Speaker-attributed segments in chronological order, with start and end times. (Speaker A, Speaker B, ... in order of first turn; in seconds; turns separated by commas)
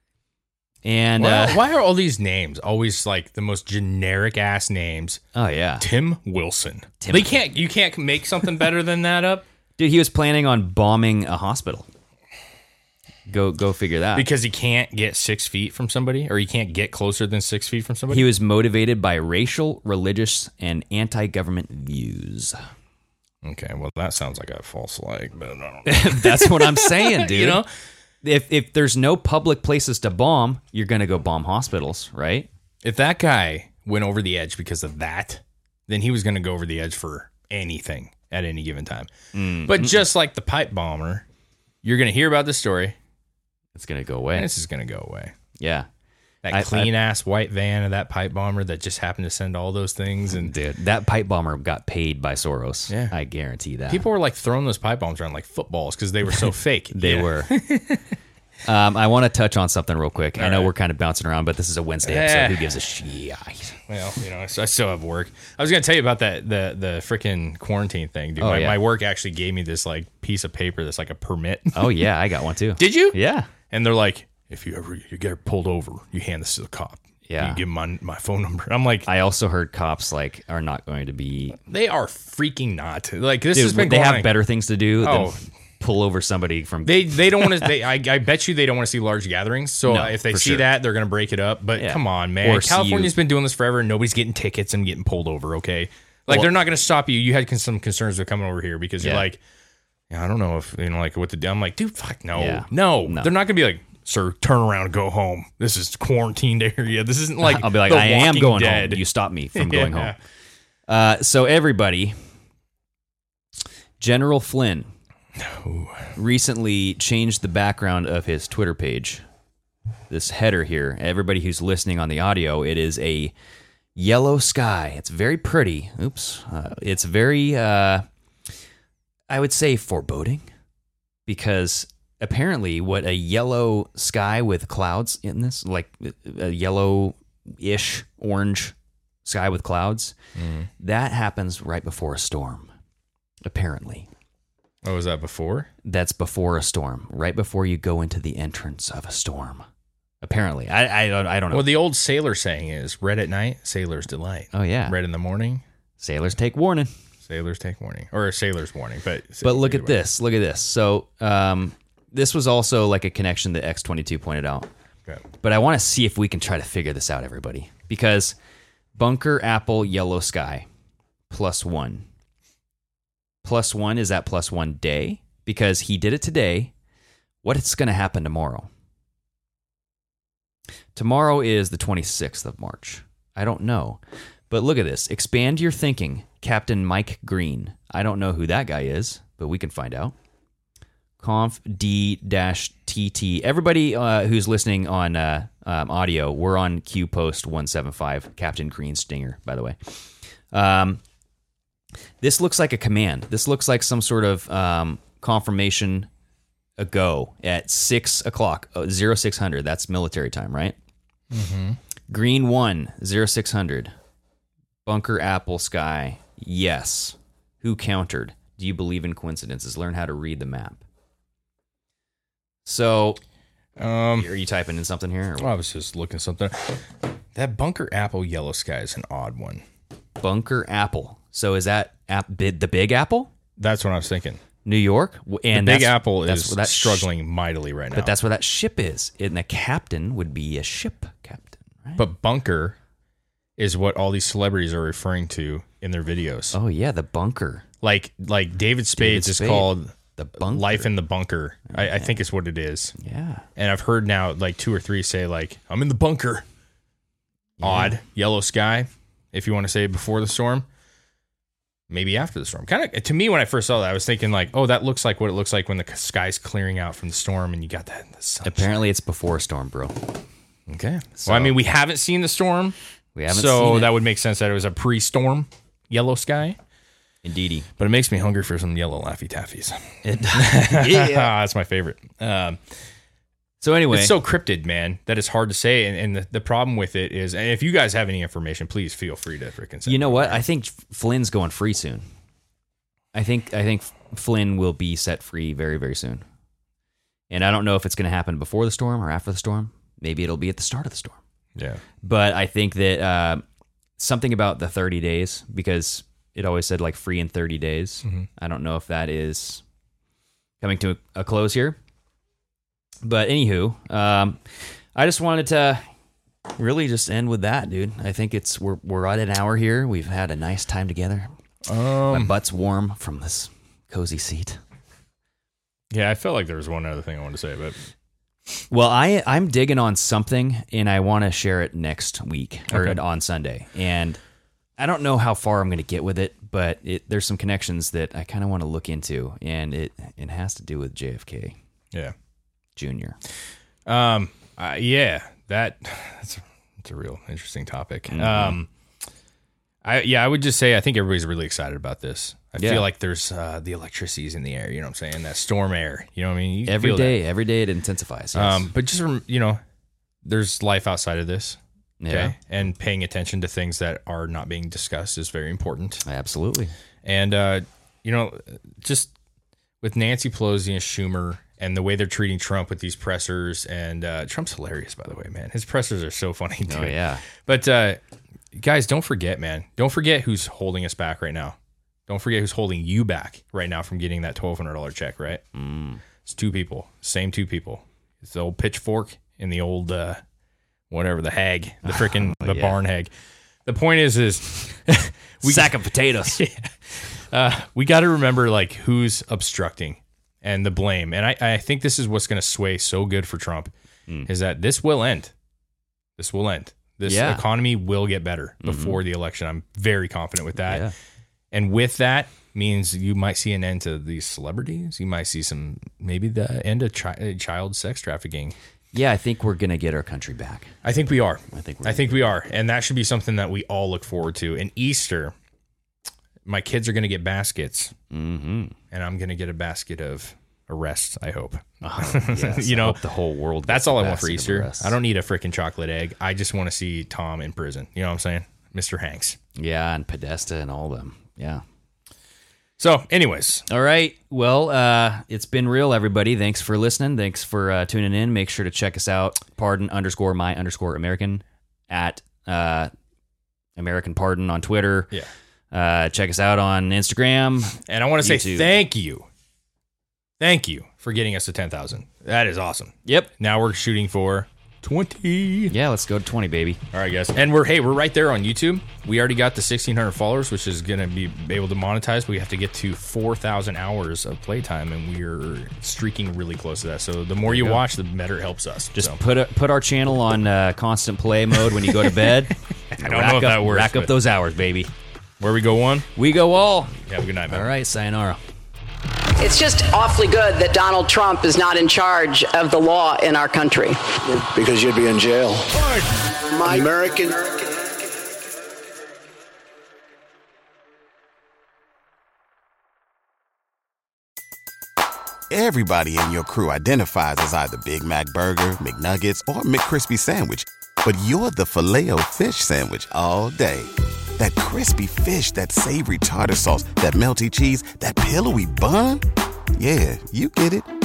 Speaker A: 0.8-1.6, Speaker B: 1.2-5.2, Speaker A: 5.3-5.8, Speaker B: 5.8-9.4, Speaker A: 7.0-7.4, Speaker A: 9.8-11.9, Speaker A: 13.3-14.3, Speaker B: 14.2-18.3, Speaker A: 18.1-22.6, Speaker B: 23.4-27.7, Speaker A: 25.9-27.6, Speaker A: 28.2-32.5, Speaker B: 32.8-39.1, Speaker A: 39.3-40.0, Speaker B: 39.6-41.2, Speaker B: 41.8-42.9, Speaker A: 43.7-44.5, Speaker B: 44.3-45.3, Speaker A: 45.6-45.9, Speaker B: 46.4-50.5, Speaker A: 46.5-46.9, Speaker A: 50.3-54.0, Speaker B: 52.9-53.1, Speaker B: 53.9-58.1, Speaker A: 56.3-57.5, Speaker A: 58.6-63.7, Speaker B: 60.4-60.7, Speaker B: 62.0-62.7, Speaker B: 63.9-71.9, Speaker A: 68.4-68.8, Speaker A: 71.7-73.5, Speaker B: 72.8-79.1, Speaker A: 77.3-77.6, Speaker A: 79.0-81.6, Speaker B: 81.7-84.3, Speaker A: 83.5-87.7, Speaker B: 85.0-85.4, Speaker B: 86.8-99.4, Speaker A: 89.9-90.7, Speaker A: 91.8-93.1, Speaker A: 99.0-99.2, Speaker B: 100.1-109.0, Speaker A: 102.3-103.3, Speaker A: 107.4-110.1, Speaker B: 109.5-110.2, Speaker A: 110.9-112.2, Speaker A: 114.0-114.9, Speaker B: 115.4-116.1, Speaker A: 116.1-119.2, Speaker A: 120.1-123.3, Speaker A: 124.0-128.0, Speaker A: 129.3-130.5, Speaker A: 131.3-138.7, Speaker A: 139.2-140.1, Speaker B: 140.3-140.7, Speaker A: 140.8-142.7, Speaker A: 143.4-144.1, Speaker B: 144.8-145.7, Speaker A: 145.8-149.7, Speaker A: 150.2-151.7, Speaker B: 151.5-155.6, Speaker A: 154.5-154.9, Speaker A: 156.0-156.9, Speaker B: 157.2-160.0, Speaker A: 159.4-164.7, Speaker A: 165.4-168.3, Speaker A: 169.0-170.7, Speaker A: 171.3-172.1, Speaker A: 173.4-176.7, Speaker A: 177.4-178.7, Speaker A: 180.9-184.0, Speaker A: 184.5-190.1, Speaker A: 191.2-199.8, Speaker A: 200.5-201.0, Speaker A: 202.2-206.1, Speaker A: 206.8-210.8, Speaker B: 211.3-211.8, Speaker A: 212.1-213.9, Speaker A: 214.8-220.8, Speaker A: 222.6-223.2, Speaker B: 223.8-224.3, Speaker A: 224.2-225.5, Speaker B: 225.4-226.8, Speaker B: 227.3-229.6, Speaker A: 230.2-233.3, Speaker B: 233.6-234.4, Speaker A: 234.6-237.1, Speaker B: 235.5-238.1, Speaker A: 237.9-242.0, Speaker B: 242.0-242.8, Speaker B: 243.6-246.5, Speaker A: 246.5-247.6, Speaker B: 247.8-252.9, Speaker A: 249.0-250.9, Speaker A: 251.7-252.1, Speaker A: 253.0-253.4, Speaker B: 253.6-256.4, Speaker A: 257.6-257.9, Speaker B: 257.6-260.6, Speaker B: 261.9-268.7, Speaker A: 268.4-270.0, Speaker B: 270.7-272.8, Speaker A: 271.2-271.6, Speaker A: 273.1-273.9, Speaker B: 273.3-276.6, Speaker A: 277.2-277.7, Speaker B: 277.8-282.6, Speaker A: 280.0-281.3, Speaker A: 283.6-284.1, Speaker B: 283.9-290.4, Speaker A: 289.9-292.0, Speaker A: 293.1-296.2, Speaker A: 297.3-301.2, Speaker B: 301.6-301.8, Speaker A: 302.0-303.4, Speaker A: 304.0-309.6, Speaker A: 310.6-311.8, Speaker A: 313.0-314.4, Speaker A: 314.9-315.8, Speaker A: 316.5-321.3, Speaker B: 321.7-322.3, Speaker A: 322.1-324.6, Speaker B: 325.9-327.7, Speaker A: 328.7-334.2, Speaker B: 332.7-333.0, Speaker A: 334.8-341.6, Speaker A: 342.8-343.2, Speaker B: 343.9-348.7, Speaker A: 348.1-348.6, Speaker B: 349.8-357.2, Speaker A: 352.6-352.9, Speaker A: 356.7-358.7, Speaker B: 358.3-359.6, Speaker B: 360.2-361.6, Speaker A: 362.0-362.3, Speaker B: 362.1-366.0, Speaker A: 366.0-366.7, Speaker B: 367.0-369.1, Speaker B: 369.8-378.0, Speaker A: 376.7-377.2, Speaker B: 378.5-381.6, Speaker B: 382.1-385.4, Speaker A: 385.5-386.0, Speaker B: 386.2-390.2, Speaker B: 390.9-393.1, Speaker A: 391.8-392.8, Speaker B: 393.6-403.7, Speaker A: 395.4-396.4, Speaker B: 404.3-405.3, Speaker B: 406.2-410.9, Speaker A: 407.0-407.4, Speaker A: 408.6-409.0, Speaker A: 410.6-410.9, Speaker B: 411.5-418.5, Speaker A: 418.9-420.7, Speaker B: 420.8-425.3, Speaker A: 421.5-422.3, Speaker B: 426.4-427.9, Speaker A: 428.1-428.7, Speaker B: 428.9-433.0, Speaker A: 431.8-434.9, Speaker B: 433.7-439.4, Speaker A: 439.6-441.6, Speaker B: 442.8-443.6, Speaker A: 443.7-452.9, Speaker A: 453.8-455.1, Speaker A: 455.7-458.7, Speaker B: 457.9-459.2, Speaker B: 460.4-465.7, Speaker A: 465.7-466.8, Speaker B: 466.9-479.1, Speaker A: 477.4-477.8, Speaker A: 478.9-484.9, Speaker B: 482.9-484.1, Speaker B: 485.4-486.1, Speaker A: 486.2-486.9, Speaker B: 487.0-487.7, Speaker A: 487.5-488.4, Speaker C: 489.4-494.0, Speaker D: 494.2-495.9, Speaker C: 496.6-496.9, Speaker D: 496.6-497.5, Speaker E: 505.5-519.2, Speaker E: 519.8-520.9